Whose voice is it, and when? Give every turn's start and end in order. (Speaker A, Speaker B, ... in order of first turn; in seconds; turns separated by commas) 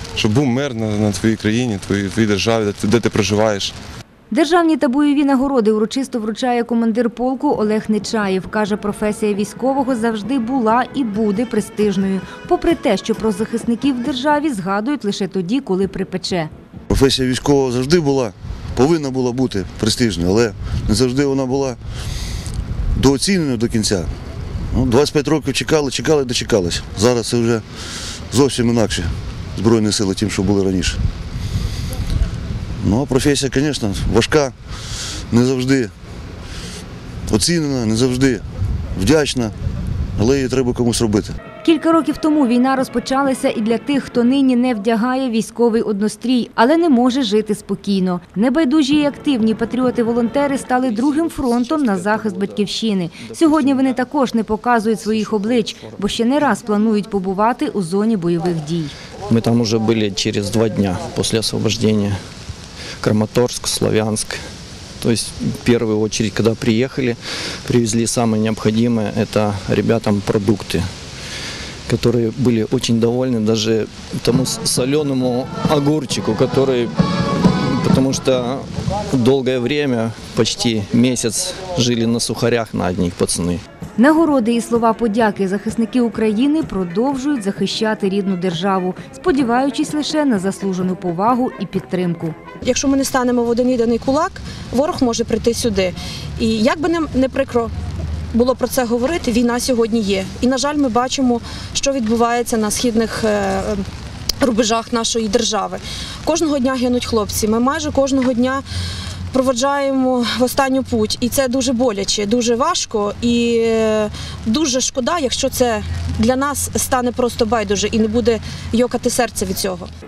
Speaker A: 0.1-3.8, Speaker B: 4.3-16.5, Speaker C: 16.9-21.8, Speaker C: 22.9-24.1, Speaker C: 24.7-27.6, Speaker C: 28.3-31.0, Speaker C: 32.8-34.5, Speaker C: 35.3-35.9, Speaker C: 37.3-38.4, Speaker C: 38.9-39.5, Speaker C: 40.2-41.3, Speaker B: 41.6-58.9, Speaker D: 50.8-54.0, Speaker D: 55.1-56.0, Speaker D: 59.3-62.2, Speaker D: 63.0-64.4, Speaker D: 65.0-70.8, Speaker D: 71.9-83.6, Speaker B: 84.0-92.3, Speaker E: 92.6-97.7, Speaker E: 98.3-103.8, Speaker E: 104.4-108.6, Speaker E: 109.3-119.9